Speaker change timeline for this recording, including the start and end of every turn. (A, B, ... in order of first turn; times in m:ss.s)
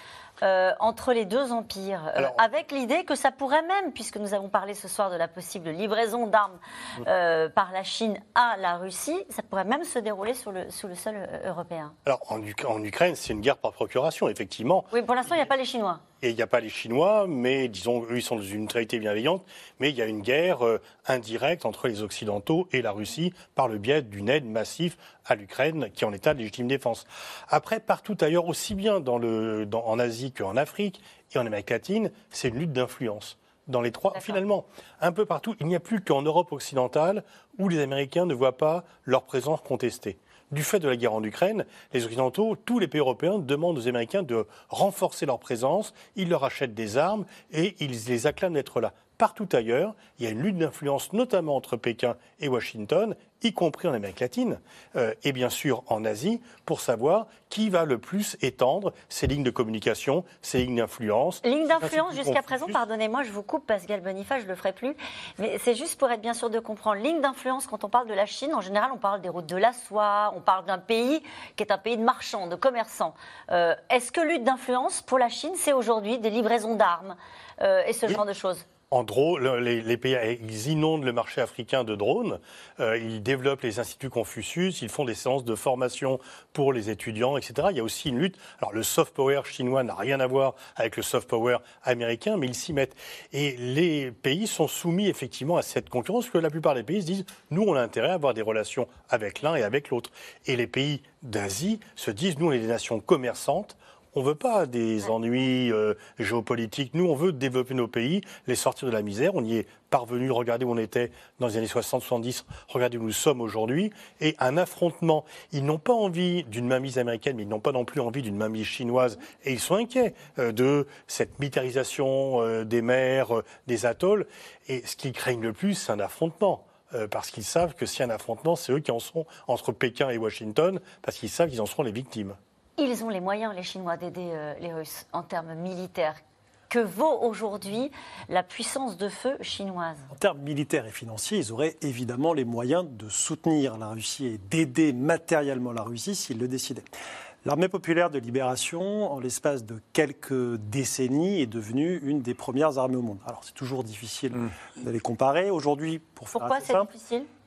0:00.4-0:11.9 A
0:02.2-0:02.4 B
0:12.0-0:15.5 B
0:14.9-0:16.0 A
0:16.2-1:02.8 B
1:01.4-1:18.6 A
1:18.9-2:12.4 B
2:12.8-2:20.1 A
2:20.1-2:26.9 C
2:27.4-2:36.9 C
2:36.3-2:37.3 A